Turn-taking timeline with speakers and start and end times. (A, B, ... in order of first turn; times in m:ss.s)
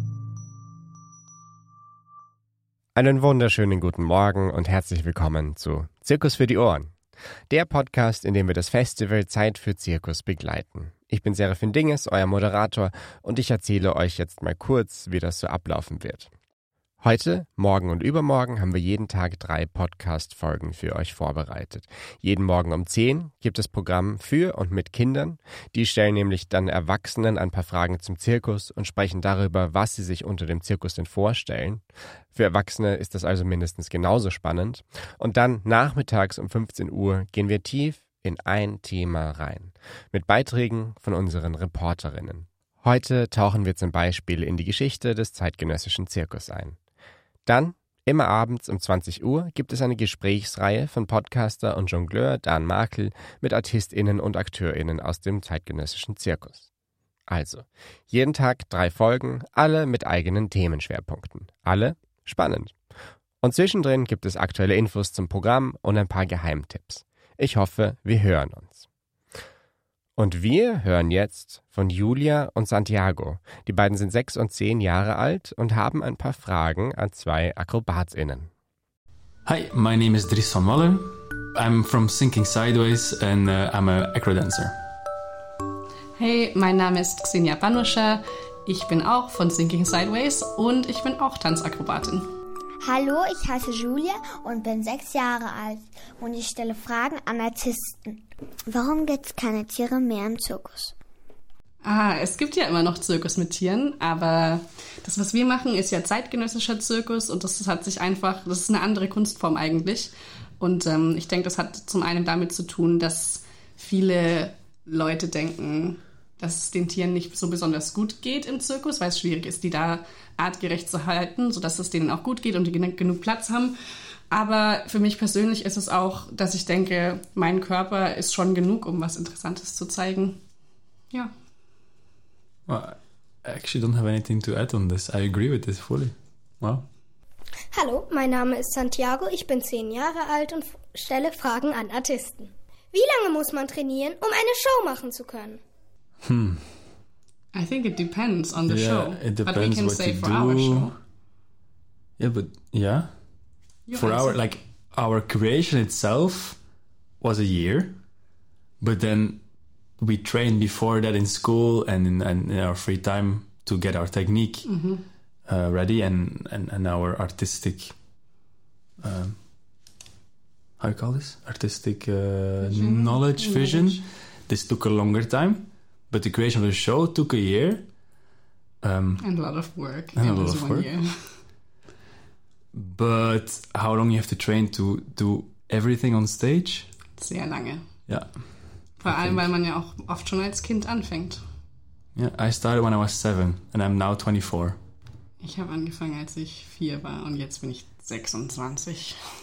0:03.0-0:06.9 A
0:07.5-0:16.3 A
0:17.0-0:46.8 A
0:47.5-0:56.7 A
0:57.3-1:02.7 A
1:03.4-1:08.8 A
1:10.2-1:18.5 A
1:19.5-1:24.8 B
1:26.2-1:32.3 C
1:32.8-1:40.9 D
1:41.8-2:03.8 C
2:04.3-2:10.4 C
2:12.7-2:16.9 B
2:17.7-2:25.6 E
2:26.2-2:26.7 B
2:27.5-2:31.0 C
2:28.7-2:31.0 B
2:32.2-2:33.1 B
2:33.9-2:34.4 C
2:34.0-2:36.6 B
2:37.2-2:38.0 B
2:38.8-2:39.4 B
2:40.0-2:44.7 B
2:44.7-2:45.0 C
2:45.5-2:48.0 B
2:49.0-2:49.4 B
2:50.8-2:57.9 B
2:52.6-2:54.0 C
2:58.8-2:59.2 B
2:59.2-3:01.1 C
3:00.2-3:00.9 B
3:02.7-3:06.9 B
3:07.2-3:07.8 C
3:08.1-3:08.5 B
3:09.0-3:11.4 C
3:09.0-3:09.5 B
3:12.2-3:14.8 B
3:15.4-3:19.2 C